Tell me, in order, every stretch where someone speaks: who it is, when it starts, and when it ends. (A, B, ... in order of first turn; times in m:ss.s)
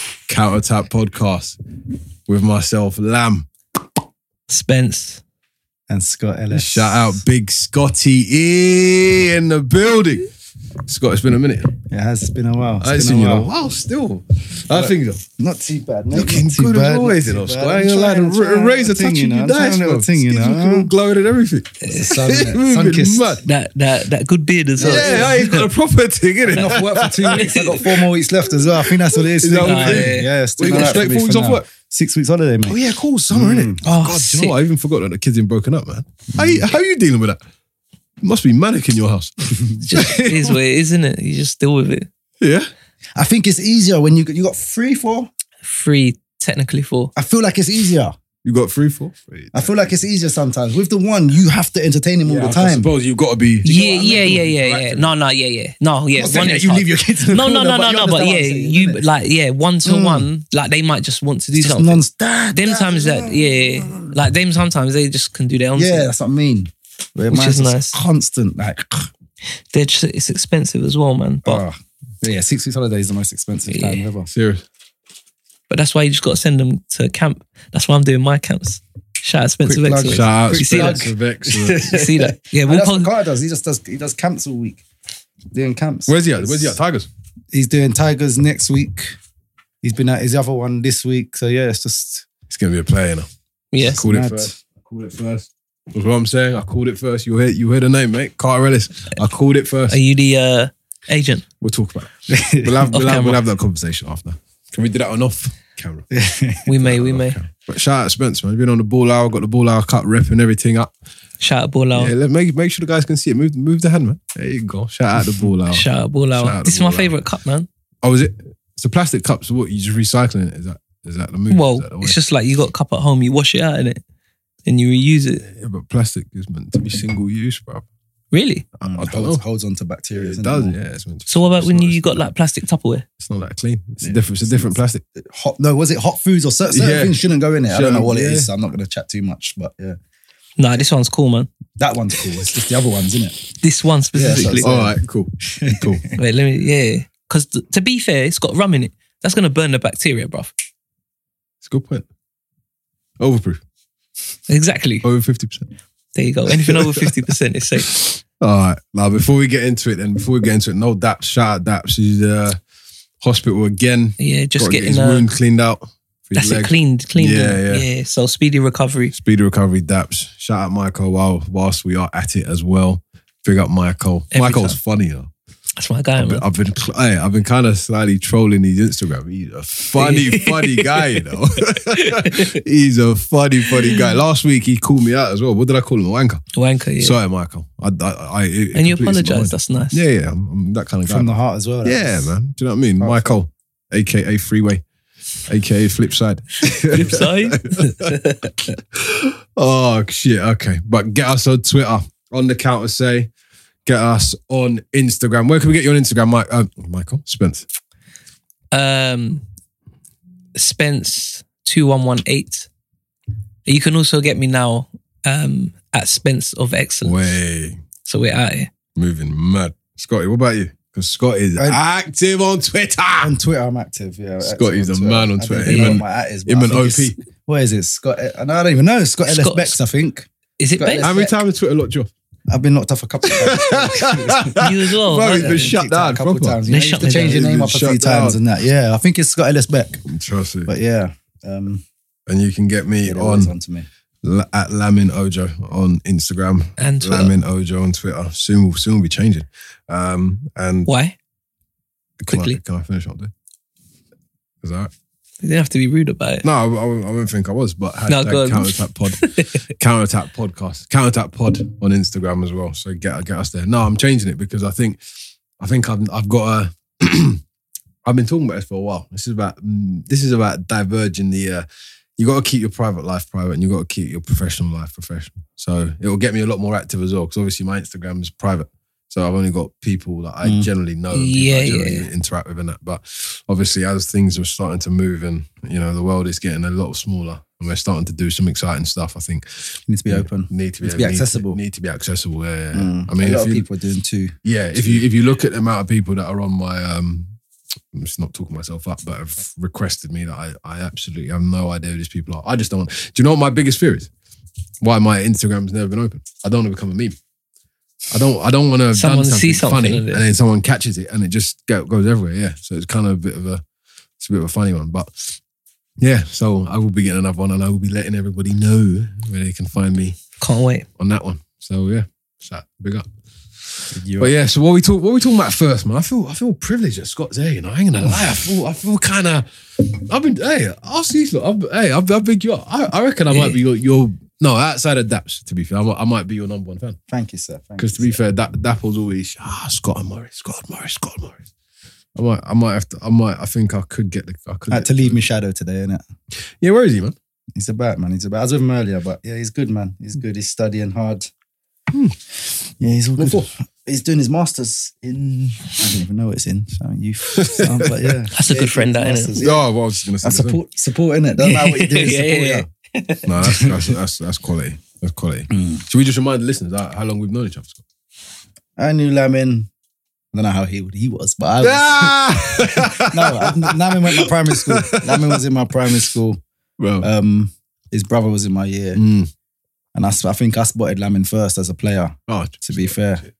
0:00.3-0:01.6 A
0:02.3-0:03.4 A
0:04.5-0:05.2 B
0:05.9-0:07.2 C
0:06.5-0:10.3 A
0:10.9-0:11.7 A
0:11.9-0:13.5 C
0:12.8-0:15.2 A
0:14.7-0:20.9 C
0:16.1-0:23.4 A
0:21.8-0:22.2 B
0:21.9-0:23.4 C
0:23.4-0:25.7 B
0:24.8-0:25.4 C
0:24.8-0:27.9 A
0:26.4-0:32.8 C
0:27.3-0:27.8 B
0:28.6-0:31.7 A
0:29.6-0:31.0 B
0:32.7-0:37.4 A
0:33.3-0:33.8 C
0:33.8-0:34.5 B
0:36.3-0:36.6 C
0:38.2-0:40.6 A
0:39.8-0:42.1 B
0:42.4-0:42.7 A
0:43.2-0:45.3 C
0:45.6-0:47.1 B
0:47.2-0:48.2 C
0:48.4-0:49.9 A
0:49.5-0:52.9 C
0:52.2-0:55.1 A
0:53.6-1:02.0 B
0:56.2-0:59.0 C
0:59.8-1:00.3 C
1:01.5-1:04.1 C
1:02.5-1:06.1 B
1:05.7-1:09.1 C
1:07.3-1:08.0 B
1:09.7-1:11.6 B
1:11.4-1:14.3 C
1:13.7-1:14.0 B
1:14.3-1:14.6 A
1:15.7-1:21.1 B
1:19.6-1:24.8 C
1:20.1-1:21.9 A
1:21.8-1:23.1 B
1:25.5-1:26.8 C
1:26.1-1:27.1 A
1:27.5-1:29.1 C
1:29.8-1:32.3 C
1:32.5-1:33.3 A
1:33.7-1:34.0 B
1:33.8-1:40.0 A
1:33.8-1:34.6 C
1:39.9-1:41.4 B
1:41.6-1:46.1 A
1:42.3-1:42.9 C
1:42.9-1:43.4 B
1:46.1-1:46.7 C
1:46.6-1:47.4 B
1:46.8-1:50.9 A
1:51.4-1:52.1 B
1:51.9-1:57.2 A
1:55.7-1:57.7 B
1:58.0-2:02.2 A
2:01.5-2:04.0 B
2:04.6-2:05.4 B
2:05.5-2:07.8 A
2:08.3-2:08.6 B
2:08.8-2:09.4 A
2:08.8-2:10.8 C
2:10.1-2:12.3 A
2:11.3-2:13.0 B
2:13.2-2:15.0 A
2:14.0-2:20.0 C
2:16.7-2:17.2 A
2:17.7-2:18.5 A
2:20.6-2:21.5 B
2:21.8-2:23.4 C
2:23.6-2:24.7 B
2:24.1-2:24.9 C
2:24.5-2:26.1 A
2:25.4-2:26.1 C
2:26.1-2:30.5 B
2:31.6-2:32.0 A
2:33.2-2:33.6 A
2:34.5-2:35.0 B
2:35.0-2:35.7 A
2:36.1-2:38.0 B
2:36.5-2:42.6 A
2:43.2-2:47.8 A
2:44.2-2:45.2 B
2:46.4-2:49.1 B
2:49.1-2:55.3 A
2:54.3-2:54.8 B
2:55.8-2:56.4 B
2:56.2-3:06.4 A
3:00.0-3:01.0 B
3:02.0-3:02.5 B
3:06.5-3:07.2 B
3:07.0-3:14.8 A
3:08.7-3:10.0 B
3:11.0-3:12.3 C
3:13.0-3:13.3 C
3:15.5-3:18.3 A
3:16.9-3:18.7 B
3:18.9-3:23.3 A
3:23.8-3:27.6 A
3:28.7-3:29.4 B
3:30.5-3:32.7 B
3:33.6-3:37.3 B
3:37.0-3:37.8 A
3:38.0-3:38.7 B
3:39.0-3:43.3 A
3:43.2-3:51.4 C
3:44.4-3:47.2 A
3:45.6-3:46.0 B
3:49.2-3:49.8 B
3:50.6-3:51.1 B
3:51.0-3:52.1 A
3:52.5-4:00.0 C
3:53.2-3:58.4 A
3:54.6-3:55.7 B
3:56.7-3:57.4 B
4:00.1-4:00.7 A
4:00.6-4:01.8 C
4:02.3-4:03.5 A
4:03.0-4:03.8 C
4:04.2-4:10.9 A
4:06.8-4:07.4 B
4:10.9-4:11.2 B
4:12.2-4:13.3 A
4:12.3-4:12.6 B
4:14.6-4:14.9 A
4:15.4-4:16.4 B
4:16.4-4:25.0 A
4:18.1-4:19.6 B
4:25.6-4:27.4 A
4:28.0-4:31.6 A
4:32.2-4:53.6 A
4:40.4-4:40.7 C
4:41.1-4:42.0 B
4:49.9-4:51.6 C
4:52.7-4:55.0 C
4:54.4-4:57.3 A
4:57.9-5:04.1 A
5:04.8-5:07.2 A
5:08.1-5:13.6 A
5:08.9-5:10.2 B
5:14.2-5:15.4 A
5:16.0-5:20.2 A
5:20.4-5:20.8 B
5:21.0-5:23.1 A
5:23.9-5:37.0 A
5:23.9-5:24.3 C
5:33.3-5:33.6 B
5:37.1-5:38.2 C
5:37.8-5:41.4 A
5:42.2-5:45.2 A
5:44.7-5:46.0 C
5:46.6-5:47.1 A
5:47.5-5:51.3 C
5:52.5-5:59.7 C
5:53.2-5:53.5 A
5:57.3-5:58.2 A
5:58.3-5:59.3 B
5:59.4-6:00.6 A
6:00.2-6:02.7 C
6:01.4-6:03.3 B
6:03.2-6:07.8 A
6:03.4-6:03.9 C
6:05.5-6:05.8 C
6:08.8-6:09.7 C
6:10.3-6:16.4 C
6:11.6-6:15.4 A
6:16.8-6:17.1 A
6:17.0-6:19.0 C
6:18.9-6:19.3 A
6:19.9-6:23.2 C
6:22.3-6:23.1 A